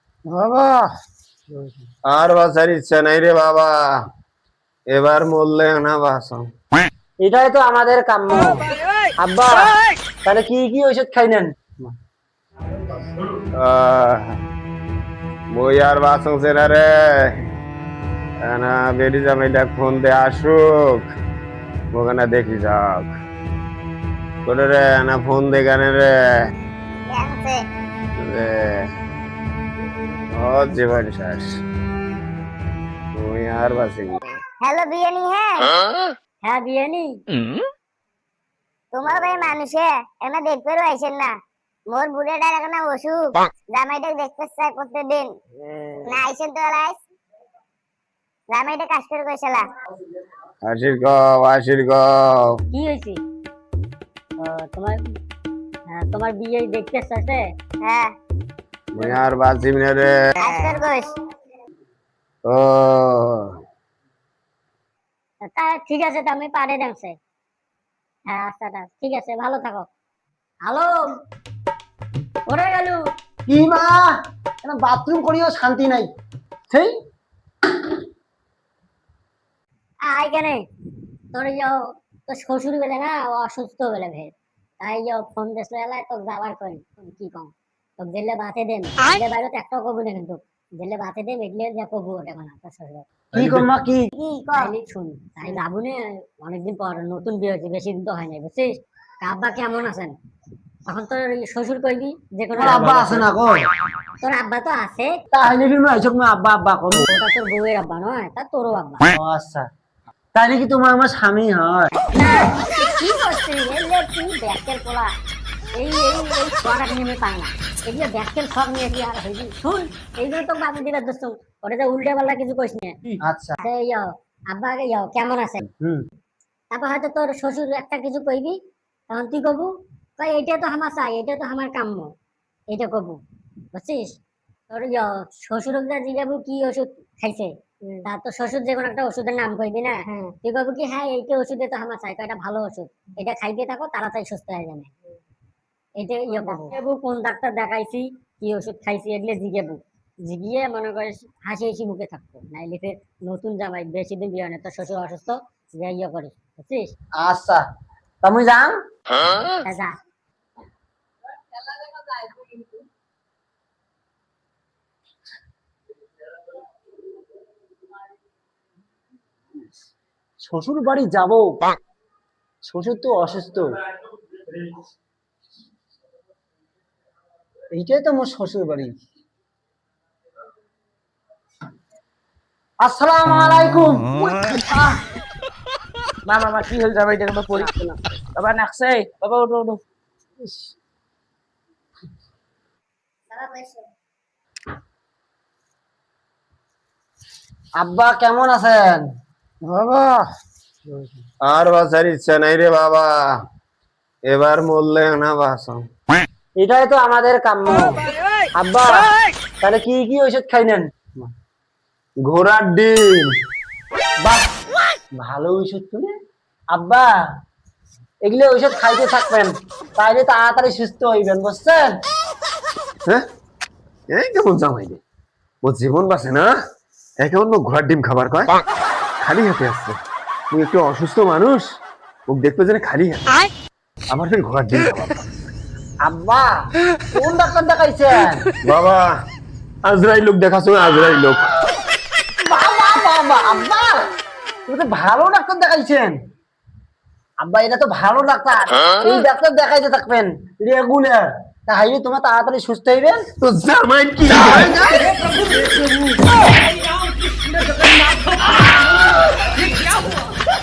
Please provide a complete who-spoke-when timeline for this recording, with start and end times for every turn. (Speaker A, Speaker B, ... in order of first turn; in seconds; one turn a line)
Speaker A: 0.3-0.9
Speaker A: 2.1-4.0
Speaker A: 4.9-6.5
Speaker B: 7.2-8.7
Speaker B: 9.2-9.7
Speaker B: 10.2-11.9
Speaker A: 13.6-14.4
Speaker A: 15.5-17.4
Speaker A: 18.4-21.1
Speaker A: 21.9-23.1
Speaker A: 24.4-26.1
Speaker C: 27.1-27.6
Speaker A: 28.2-28.9
Speaker A: 30.3-31.6
Speaker A: 33.1-34.3
Speaker C: 34.6-35.8
Speaker D: 36.4-37.2
Speaker C: 38.9-41.3
Speaker C: 41.9-45.3
Speaker C: 46.0-47.0
Speaker C: 48.5-49.6
Speaker A: 50.6-52.6
Speaker D: 52.7-53.2
Speaker D: 54.4-55.0
Speaker D: 55.9-57.4
Speaker C: 57.8-58.1
Speaker A: 58.9-60.1
Speaker C: 60.4-61.1
Speaker A: 62.5-63.6
Speaker D: 65.5-67.2
Speaker D: 68.3-69.9
Speaker D: 70.6-71.1
Speaker D: 72.5-73.0
Speaker B: 73.5-76.1
Speaker D: 80.1-80.6
Speaker D: 81.3-93.0
Speaker A: 93.3-93.7
Speaker B: 93.3-94.1
Speaker C: 94.2-94.7
Speaker D: 94.6-100.1
Speaker D: 100.9-103.2
Speaker B: 102.6-103.6
Speaker D: 104.2-105.1
Speaker B: 105.3-107.1
Speaker D: 107.0-109.0
Speaker B: 109.1-109.7
Speaker B: 110.3-111.9
Speaker D: 112.1-115.1
Speaker D: 115.7-123.0
Speaker B: 123.2-123.6
Speaker D: 123.6-125.6
Speaker B: 125.8-126.0
Speaker D: 126.7-128.6
Speaker D: 129.1-132.1
Speaker D: 132.7-133.2
Speaker D: 133.7-134.1
Speaker D: 134.7-137.5
Speaker D: 138.0-144.9
Speaker D: 146.0-156.9
Speaker B: 157.2-157.6
Speaker B: 158.2-158.7
Speaker D: 159.5-159.9
Speaker B: 170.4-171.6
Speaker B: 172.6-173.7
Speaker B: 177.7-178.9
Speaker B: 182.8-185.0
Speaker E: 186.2-189.8
Speaker C: 193.4-193.7
Speaker B: 197.8-199.0
Speaker A: 199.7-200.2
Speaker A: 201.4-203.3
Speaker A: 204.3-205.8
Speaker B: 206.6-208.0
Speaker B: 208.5-209.1
Speaker B: 209.6-211.3
Speaker A: 212.2-213.3
Speaker B: 214.2-214.5
Speaker B: 215.2-216.1
Speaker B: 216.7-217.1
Speaker B: 218.2-221.9
Speaker A: 224.1-225.0
Speaker A: 225.6-226.5
Speaker A: 227.2-228.6
Speaker A: 229.2-230.0
Speaker A: 230.5-231.7
Speaker A: 232.3-233.3
Speaker A: 234.1-235.2
Speaker B: 236.0-236.5
Speaker B: 237.1-238.4
Speaker A: 238.6-239.2
Speaker A: 239.8-241.5
Speaker B: 242.4-244.1
Speaker B: 244.7-246.1
Speaker B: 247.4-253.2
Speaker A: 253.4-255.1
Speaker E: 255.5-255.8
Speaker E: 256.4-258.8
Speaker E: 259.6-260.2